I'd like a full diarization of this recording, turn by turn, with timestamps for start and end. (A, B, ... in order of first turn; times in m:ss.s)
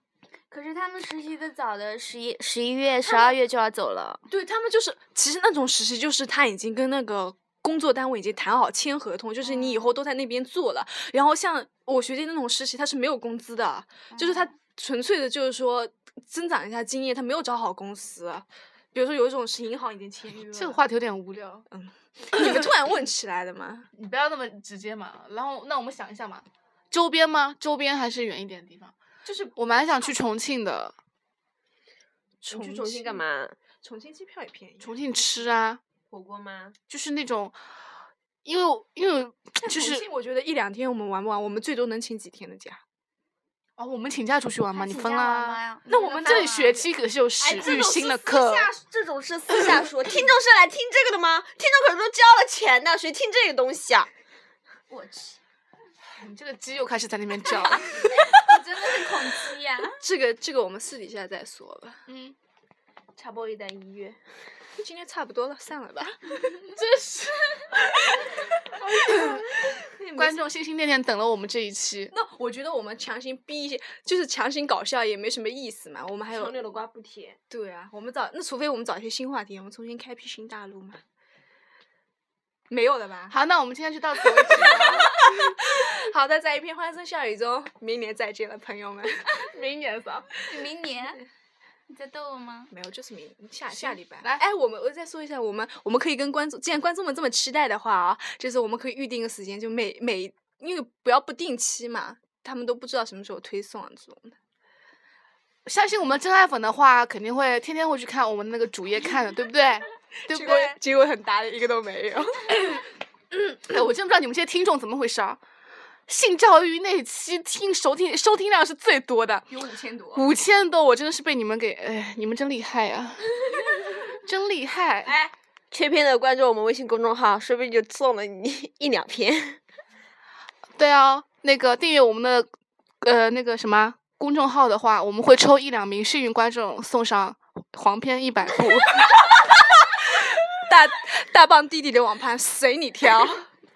0:00.5-0:04.2 A
0:03.0-0:03.4 B
0:04.3-0:20.8 B
0:14.1-0:14.5 A
0:20.5-0:21.6 C
0:21.7-0:23.9 B
0:22.4-0:22.6 C
0:23.9-0:28.9 C
0:29.2-0:29.6 B
0:29.6-0:30.9 C
0:32.4-0:33.2 B
0:32.5-0:33.6 D
0:33.8-0:35.2 B
0:34.8-0:35.8 C
0:36.1-0:36.8 D
0:36.9-0:37.6 C
0:38.4-0:40.0 C
0:39.6-0:42.8 B
0:43.8-0:45.6 C
0:44.7-0:46.8 A
0:45.9-0:46.8 B
0:46.2-0:48.7 C
0:47.4-0:54.1 D
0:54.9-0:55.4 A
0:56.1-0:58.0 C
0:57.9-1:00.0 A
1:00.0-1:02.0 B
1:02.1-1:02.4 C
1:03.2-1:04.0 A
1:03.4-1:04.1 D
1:04.8-1:06.5 B
1:06.6-1:08.2 C
1:08.8-1:10.4 B
1:08.9-1:09.5 C
1:10.2-1:12.1 C
1:12.1-1:16.7 B
1:16.3-1:17.4 D
1:17.5-1:21.0 B
1:22.7-1:23.4 B
1:23.3-1:25.5 C
1:24.3-1:29.5 B
1:29.4-1:30.3 C
1:30.4-1:31.2 A
1:31.9-1:32.7 A
1:32.7-1:44.4 B
1:33.7-1:34.4 C
1:45.6-1:50.8 C
1:50.2-1:52.8 B
1:53.6-1:55.4 C
1:56.1-1:59.5 C
1:59.5-2:00.3 B
2:00.1-2:05.1 C
2:05.0-2:09.6 D
2:10.8-2:12.5 C
2:13.0-2:19.1 C
2:19.2-2:23.5 B